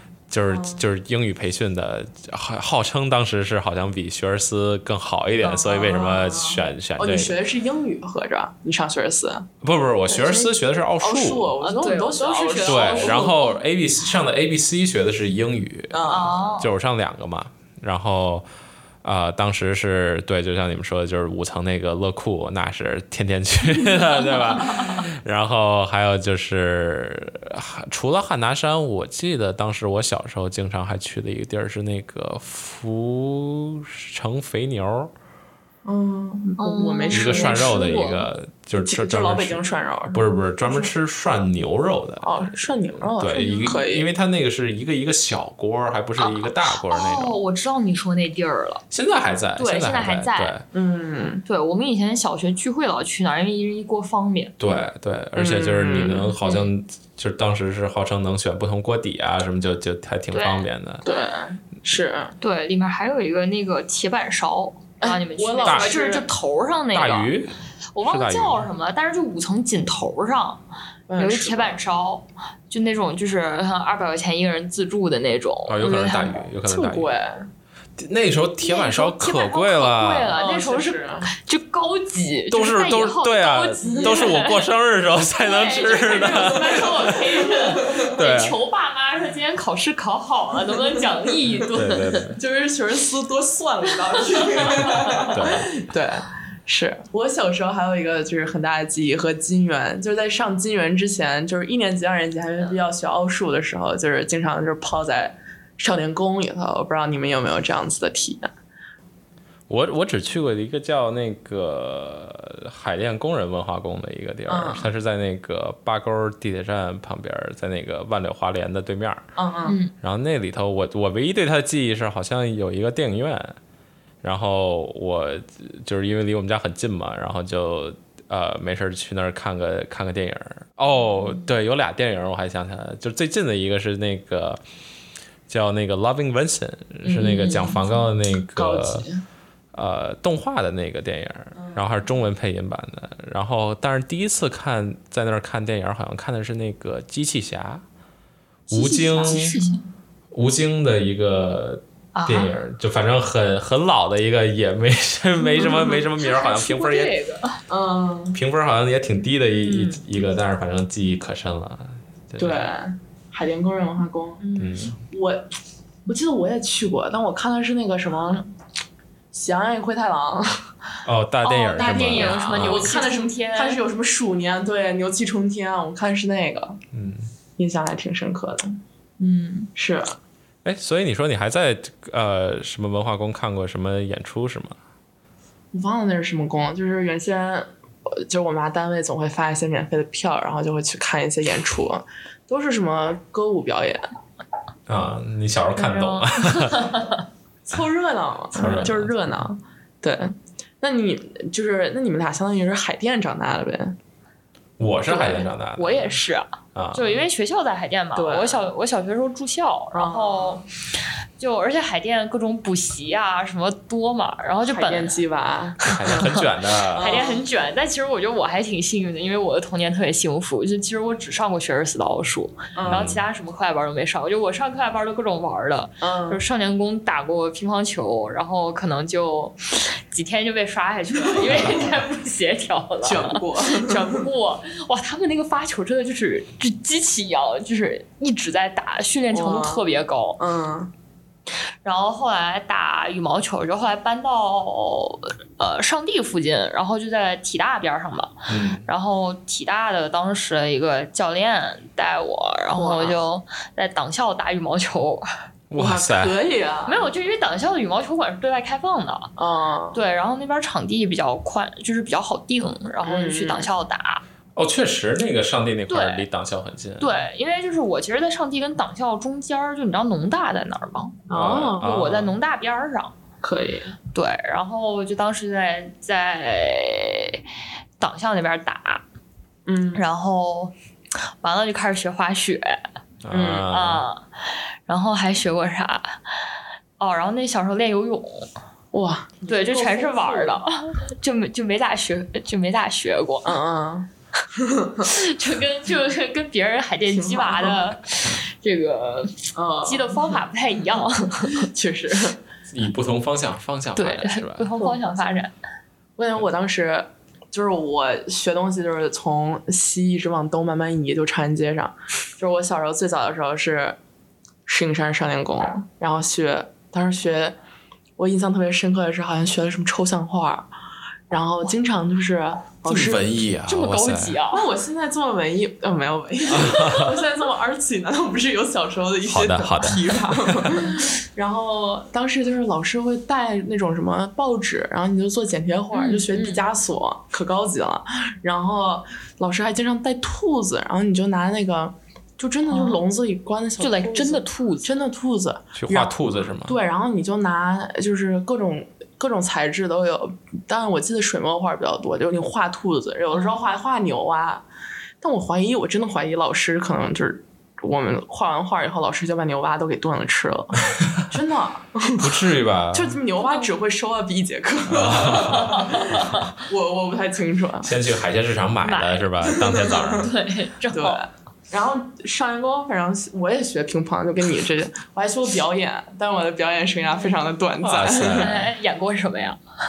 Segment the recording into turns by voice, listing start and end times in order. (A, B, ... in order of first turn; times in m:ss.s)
0:00.3-0:07.3 A
0:00.5-0:00.8 B
0:05.5-0:09.5 B
0:09.6-0:11.6 A
0:10.1-0:13.4 B
0:11.6-0:13.3 C
0:12.6-0:18.4 A
0:15.9-0:16.4 B
0:16.1-0:16.7 C
0:19.0-0:35.1 A
0:35.8-0:37.7 B
0:36.6-0:38.3 C
0:37.1-0:47.4 A
0:38.8-0:40.9 B
0:42.2-0:44.1 B
0:43.3-0:43.8 C
0:46.2-0:48.8 C
0:48.9-0:50.6 A
0:49.6-0:50.6 C
0:50.7-0:51.4 B
0:51.4-0:54.5 C
0:54.6-1:01.0 A
0:55.4-0:56.3 B
1:00.3-1:00.7 C
1:01.0-1:02.3 B
1:02.4-1:07.3 C
1:05.0-1:06.3 B
1:05.6-1:05.9 A
1:06.9-1:08.6 A
1:07.9-1:10.6 C
1:11.1-1:11.8 B
1:11.2-1:16.4 C
1:15.7-1:17.1 A
1:16.6-1:17.5 B
1:18.0-1:20.4 A
1:18.6-1:24.7 C
1:20.3-1:21.3 B
1:22.5-1:28.6 A
1:23.8-1:24.4 B
1:25.3-1:32.2 C
1:26.3-1:28.0 B
1:31.7-1:32.4 A
1:32.4-1:48.5 B
1:35.3-1:35.7 A
1:49.7-1:59.3 A
1:54.5-1:54.9 B
1:59.4-1:59.8 B
1:59.6-1:59.9 C
2:00.0-2:03.6 A
2:04.2-2:14.6 A
2:15.5-2:19.0 A
2:17.0-2:17.8 B
2:18.5-2:19.2 B
2:19.7-2:27.8 A
2:21.6-2:21.8 B
2:28.7-2:29.6 A
2:28.7-2:29.8 C
2:29.1-2:29.7 B
2:30.3-2:37.1 A
2:32.1-2:32.6 C
2:35.6-2:37.6 C
2:37.7-2:38.4 B
2:38.3-2:42.7 A
2:39.6-2:40.0 C
2:42.4-2:44.4 B
2:44.4-2:44.9 C
2:44.6-2:45.0 A
2:45.0-2:45.5 B
2:46.1-2:48.5 B
2:49.3-2:50.6 B
2:51.0-2:53.0 A
2:51.4-2:53.8 C
2:51.7-2:56.8 B
2:56.9-2:57.3 A
2:57.6-2:58.8 B
2:59.2-2:59.7 C
2:59.8-3:00.2 B
3:00.6-3:04.8 A
3:05.7-3:14.1 B
3:14.9-3:16.9 A
3:15.8-3:17.2 C
3:17.6-3:24.0 B
3:18.5-3:19.1 A
3:24.8-3:26.2 A
3:25.1-3:30.6 C
3:26.7-3:27.2 A
3:28.1-3:28.6 B
3:29.9-3:30.6 B
3:31.4-3:35.2 C
3:34.6-3:36.3 B
3:35.8-3:37.2 A
3:35.9-3:36.4 C
3:36.9-3:37.4 B
3:37.0-4:00.4 C
3:42.7-3:43.1 B
3:42.8-3:43.2 A
3:46.0-3:46.4 B
3:51.3-3:51.8 B
3:53.0-3:54.2 B
3:59.3-3:59.8 B
4:00.4-4:00.9 B
4:01.8-4:15.2 C
4:08.5-4:08.8 A
4:12.8-4:13.2 B
4:15.7-4:16.4 A
4:15.7-4:17.1 B
4:16.9-4:19.3 C
4:19.4-4:20.0 B
4:19.9-4:24.2 C
4:23.0-4:23.7 B
4:24.6-4:27.2 A
4:25.9-4:26.2 C
4:27.0-4:31.2 C
4:31.3-4:31.8 B
4:31.3-4:32.3 A
4:31.8-4:33.1 C
4:33.4-4:33.9 B
4:34.1-4:37.4 C
4:38.0-4:39.0 C
4:39.6-4:40.0 B
4:39.9-4:40.7 C
4:41.4-4:42.8 C
4:43.2-4:44.0 A
4:43.3-4:43.7 B
4:43.7-4:44.2 C
4:44.9-4:46.2 C
4:47.0-4:48.5 C
4:48.9-4:50.6 B
4:49.5-4:53.5 C
4:53.4-4:55.1 B
4:55.1-5:01.6 C
4:57.1-4:57.8 B
4:59.5-5:00.4 B
5:01.6-5:02.4 B
5:02.7-5:04.7 A
5:04.0-5:05.5 C
5:04.8-5:05.1 B
5:06.2-5:14.0 B
5:14.6-5:17.6 B
5:18.2-5:20.7 B
5:21.3-5:23.2 B
5:22.8-5:24.4 A
5:23.7-5:24.6 C
5:24.5-5:54.6 B
5:26.5-5:27.1 A
5:29.2-5:30.9 A
5:35.9-5:36.6 C
5:42.7-5:43.0 C
5:43.8-5:44.9 C
5:45.7-5:46.8 A
5:55.2-6:02.3 B
6:02.2-6:03.2 A
6:02.9-6:07.9 B
6:03.4-6:03.7 C
6:04.9-6:05.8 A
6:07.8-6:10.3 A
6:08.8-6:09.5 C
6:09.7-6:10.0 B
6:10.1-6:11.2 C
6:10.9-6:18.6 B
6:17.8-6:18.6 A
6:18.2-6:19.6 C